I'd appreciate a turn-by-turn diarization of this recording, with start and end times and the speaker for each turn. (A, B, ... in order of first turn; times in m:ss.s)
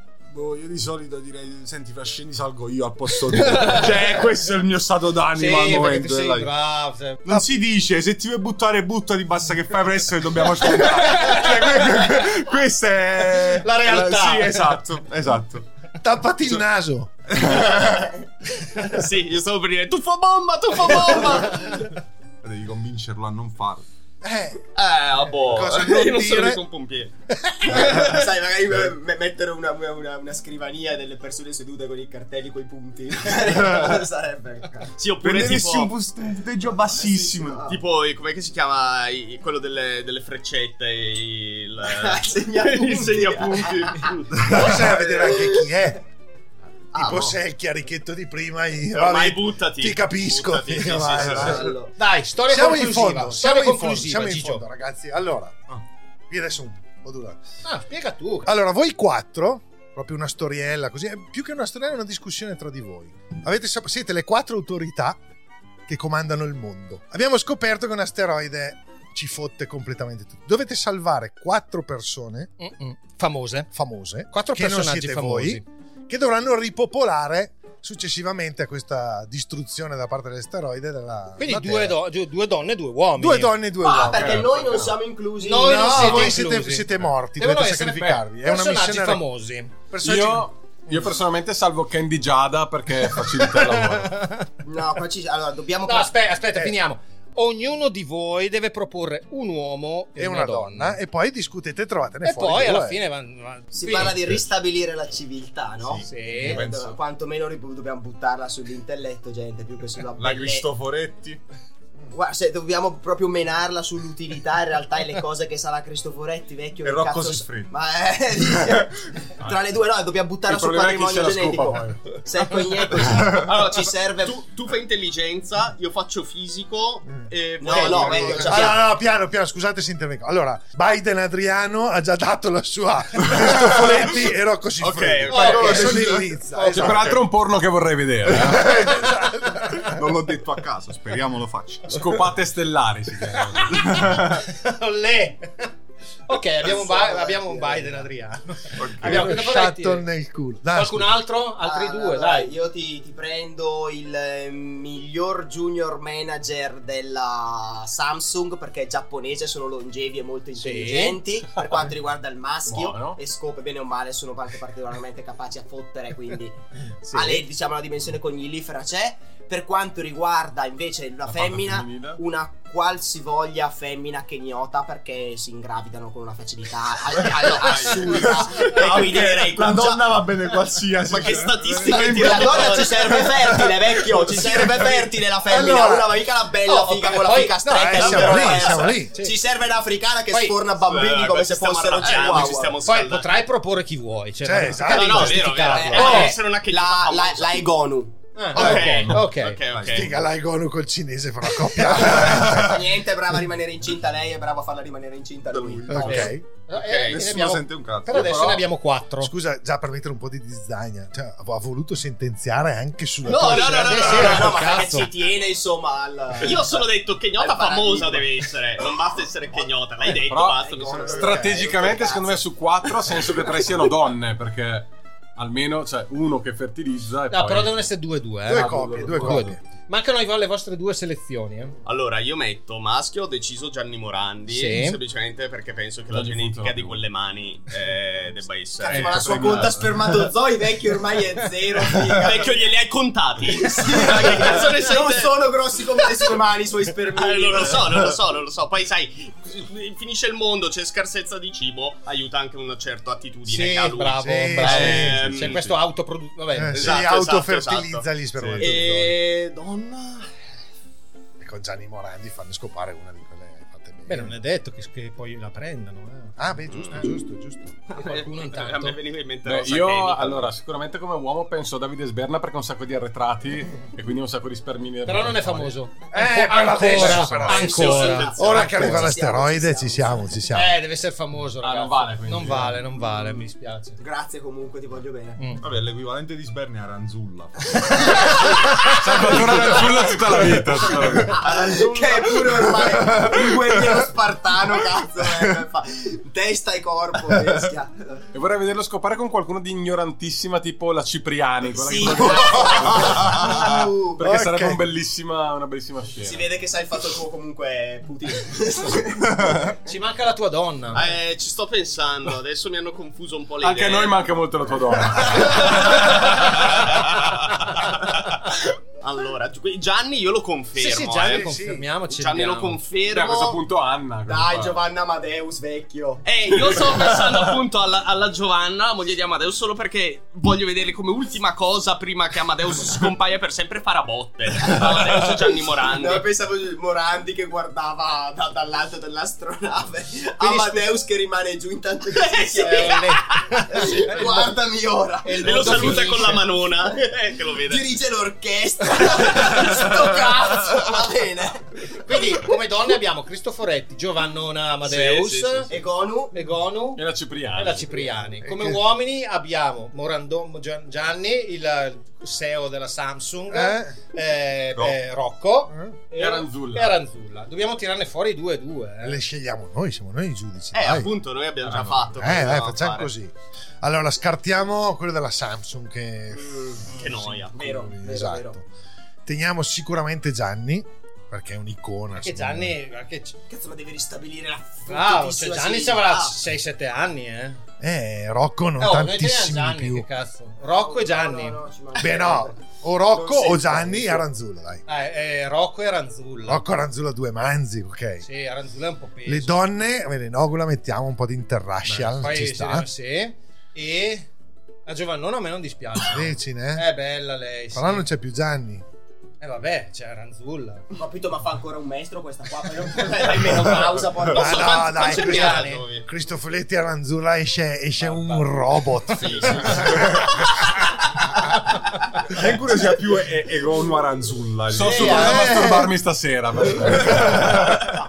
0:00.3-0:06.5 A
0:03.5-0:04.0 B
0:05.3-0:07.4 B
0:07.2-0:15.7 A
0:10.7-0:12.2 B
0:13.4-0:14.8 B
0:16.0-0:17.1 C
0:17.3-0:18.1 A
0:18.8-0:21.8 D
0:22.4-0:23.9 A
0:24.2-0:24.6 C
0:24.8-0:27.1 D
0:25.5-0:26.6 C
0:27.6-0:34.9 E
0:35.0-0:36.0 D
0:35.2-0:37.8 A
0:37.0-0:37.8 E
0:37.7-0:45.2 D
0:41.9-0:45.7 E
0:44.4-0:46.0 C
0:46.9-0:47.4 E
0:46.9-0:51.8 C
0:48.9-0:51.6 D
0:51.3-0:51.9 E
0:52.0-0:54.6 B
0:52.5-0:55.7 C
0:56.3-0:57.4 C
0:57.6-0:58.5 B
0:58.4-1:05.2 C
1:05.9-1:12.5 C
1:12.6-1:13.7 B
1:13.7-1:22.0 C
1:14.3-1:15.6 B
1:21.4-1:23.6 B
1:23.2-1:24.7 C
1:23.8-1:26.4 E
1:24.0-1:25.0 F
1:25.4-1:29.8 B
1:25.6-1:29.2 C
1:29.8-1:31.0 C
1:30.0-1:34.2 F
1:33.4-1:34.4 B
1:34.6-1:36.2 E
1:35.8-1:41.0 B
1:40.2-1:43.0 C
1:42.2-1:44.2 B
1:43.7-1:50.7 E
1:45.8-1:46.4 A
1:46.0-1:46.6 B
1:46.4-1:47.0 F
1:50.2-1:51.4 A
1:52.1-2:04.4 E
1:56.8-1:57.7 A
2:00.5-2:02.1 F
2:03.3-2:08.8 D
2:07.6-2:08.8 E
2:07.7-2:08.6 B
2:08.1-2:17.2 C
2:14.8-2:15.8 D
2:15.3-2:17.2 A
2:15.4-2:15.8 B
2:16.6-2:18.7 F
2:18.4-2:18.8 A
2:18.4-2:19.9 C
2:19.8-2:22.2 A
2:21.9-2:24.0 F
2:23.5-2:25.7 B
2:26.3-2:30.0 B
2:26.6-2:28.1 E
2:28.8-2:29.4 A
2:29.0-2:31.1 C
2:30.7-2:32.5 B
2:31.6-2:46.6 E
2:40.6-2:41.2 B
2:42.7-2:43.2 F
2:47.1-2:47.4 B
2:47.1-3:00.3 E
2:51.2-2:52.2 F
2:57.6-2:58.1 D
2:58.1-3:05.1 A
3:01.1-3:03.1 D
3:01.2-3:12.9 E
3:05.5-3:06.2 C
3:06.6-3:09.4 B
3:07.6-3:09.1 C
3:10.3-3:10.7 B
3:10.8-3:13.4 D
3:12.0-3:16.4 B
3:14.4-3:16.2 C
3:14.9-3:17.7 D
3:15.7-3:18.3 E
3:18.4-3:19.6 B
3:18.6-3:20.1 D
3:18.6-3:18.9 C
3:19.7-3:20.2 A
3:19.9-3:22.9 C
3:21.6-3:22.1 B
3:22.0-3:26.3 E
3:25.5-3:28.6 A
3:25.9-3:26.4 C
3:26.0-3:29.3 B
3:26.8-3:27.2 D
3:28.2-3:28.6 F
3:29.2-3:34.2 C
3:33.2-3:34.6 D
3:33.4-3:35.1 B
3:33.9-3:38.8 E
3:36.4-3:41.4 D
3:40.3-3:47.9 F
3:40.6-3:42.4 E
3:41.2-3:41.6 C
3:47.3-3:51.8 B
3:48.5-3:49.6 C
3:48.5-3:49.5 F
3:51.8-3:59.7 D
3:54.5-3:55.0 B
3:56.1-3:57.0 F
3:58.8-4:02.6 E
3:58.9-3:59.9 F
3:59.1-4:00.2 A
4:02.2-4:05.4 D
4:03.5-4:08.1 E
4:07.2-4:15.8 D
4:13.4-4:17.0 B
4:14.2-4:15.6 C
4:16.5-4:19.2 C
4:16.7-4:20.3 D
4:21.4-4:24.4 C
4:24.1-4:26.4 B
4:26.4-4:27.8 C
4:26.7-4:27.0 D
4:28.0-4:30.5 D
4:28.0-4:29.0 B
4:29.4-4:35.8 F
4:35.0-4:39.2 B
4:36.1-4:40.8 C
4:36.8-4:40.3 E
4:37.6-4:38.8 D
4:40.5-4:44.0 B
4:41.6-4:42.8 F
4:44.0-4:45.5 E
4:45.4-4:45.7 B
4:45.6-4:48.2 A
4:49.0-4:51.4 F
4:51.1-4:54.1 A
4:51.3-4:58.2 E
4:58.3-5:03.5 F
5:01.8-5:04.2 E
5:02.7-5:03.3 A
5:04.2-5:06.5 F
5:04.2-5:04.8 C
5:06.2-5:09.6 E
5:09.8-5:11.1 B
5:10.9-5:14.2 D
5:13.6-5:17.1 F
5:19.0-5:21.5 D
5:20.7-5:22.8 B
5:21.3-5:21.9 C
5:22.1-5:23.6 D
5:23.1-5:24.8 F
5:24.3-5:26.8 E
5:26.2-5:36.3 D
5:34.6-5:46.2 E
5:40.4-5:40.9 B
5:42.5-5:44.6 B
5:45.2-5:46.7 B
5:45.4-5:47.9 D
5:47.7-5:52.3 E
5:52.0-5:55.8 B
5:54.8-5:55.7 D
5:55.7-5:56.4 E
5:56.3-6:09.2 B
5:57.0-5:58.2 F
5:58.4-5:58.8 C
6:03.5-6:04.0 C
6:05.7-6:06.0 C
6:06.2-6:07.0 F
6:09.0-6:11.1 C
6:10.7-6:13.1 D
6:11.6-6:12.0 F
6:12.2-6:18.6 C
6:16.4-6:16.9 E
6:16.9-6:17.6 D
6:17.5-6:18.6 E
6:19.3-6:22.8 C
6:22.2-6:23.4 B
6:23.5-6:26.4 E
6:24.9-6:27.6 B
6:27.8-6:30.1 C
6:28.8-6:31.6 B
6:30.8-6:34.2 E
6:32.0-6:34.8 C
6:34.9-6:36.6 B
6:36.5-6:38.3 C
6:38.2-6:39.6 B
6:39.3-6:42.9 C
6:41.9-6:42.2 F
6:42.2-6:44.3 B
6:44.9-6:48.1 B
6:46.1-6:46.9 C
6:47.7-6:48.8 C
6:49.4-6:50.9 B
6:50.9-6:55.5 E
6:53.5-6:53.8 D
6:54.3-7:00.0 C
6:54.4-6:55.9 B
6:55.2-6:56.0 D
6:58.0-6:58.5 E
6:59.3-6:59.7 B
7:02.3-7:05.3 A
7:04.7-7:07.6 F
7:04.9-7:05.2 E
7:04.9-7:05.5 B
7:05.2-7:05.9 C